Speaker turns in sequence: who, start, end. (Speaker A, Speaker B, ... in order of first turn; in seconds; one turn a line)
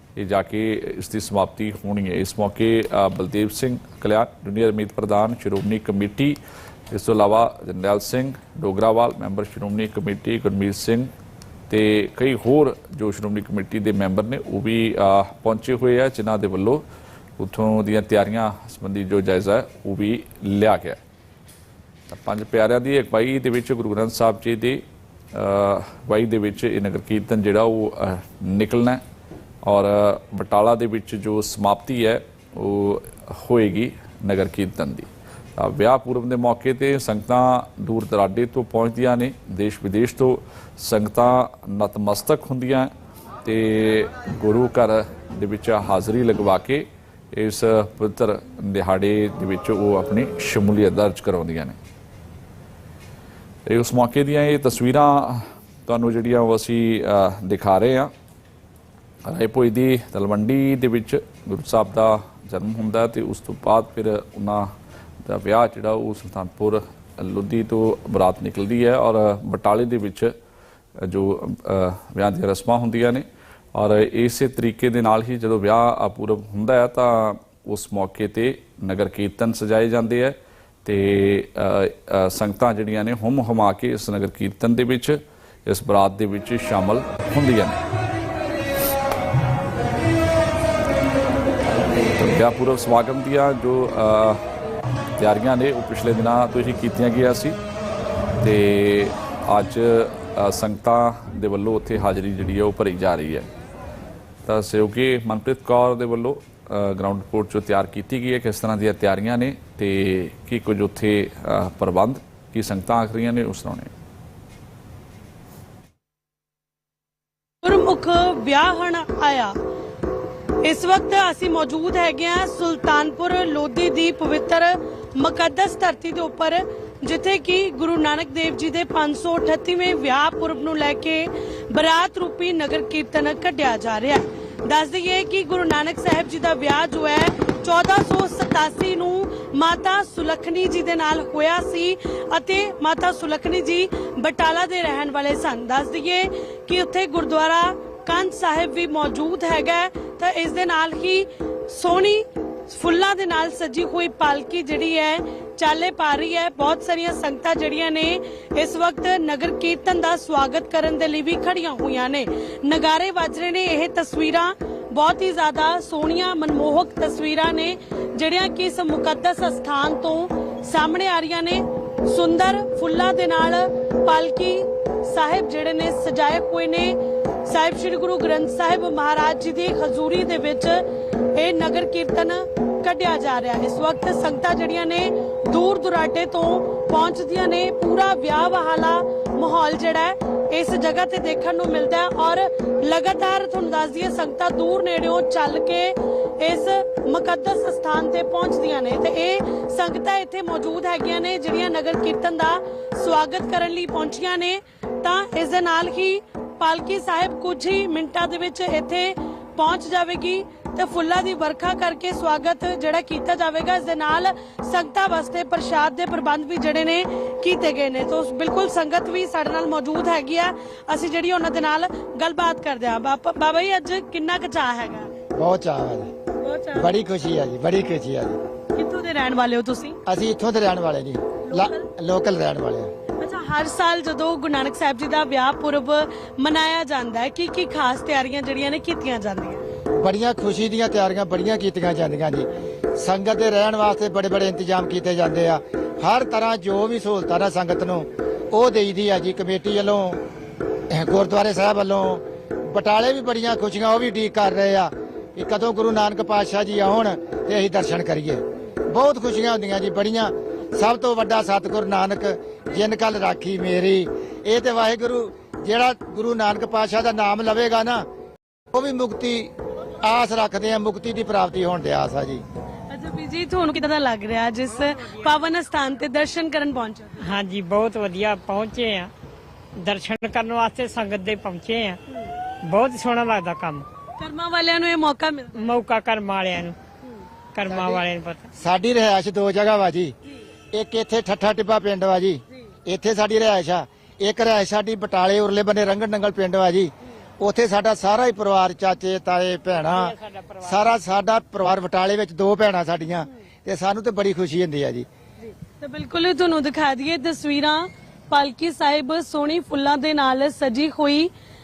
Speaker A: 0.2-6.4
Speaker A: 6.9-11.1
Speaker A: 11.7-16.9
Speaker A: 17.4-21.0
Speaker A: 22.1-29.0
Speaker A: 29.6-42.9
Speaker A: 43.4-51.8
Speaker A: 53.6-58.1
Speaker A: 59.2-64.7
Speaker A: 65.2-70.3
Speaker A: 71.0-87.8
Speaker A: 92.2-94.4
Speaker A: 95.2-97.6
Speaker A: 98.4-103.5
Speaker A: 104.5-113.9
Speaker B: 117.6-119.5
Speaker B: 120.6-180.8
Speaker B: 181.3-225.1
Speaker C: 225.3-226.1
Speaker B: 226.4-226.9
Speaker C: 226.8-228.4
Speaker B: 228.7-230.0
Speaker C: 230.1-232.9
Speaker B: 231.5-231.9
Speaker B: 233.2-239.6
Speaker C: 240.0-250.2
Speaker C: 250.9-268.1
Speaker C: 268.7-272.4
Speaker B: 272.9-277.2
Speaker D: 277.2-279.1
Speaker D: 279.8-282.0
Speaker D: 282.6-283.9
Speaker B: 284.2-285.6
Speaker D: 285.6-286.8
Speaker D: 287.5-288.5
Speaker C: 287.7-288.1
Speaker C: 288.6-290.1
Speaker C: 290.7-305.1
Speaker D: 299.9-301.0
Speaker B: 305.8-311.3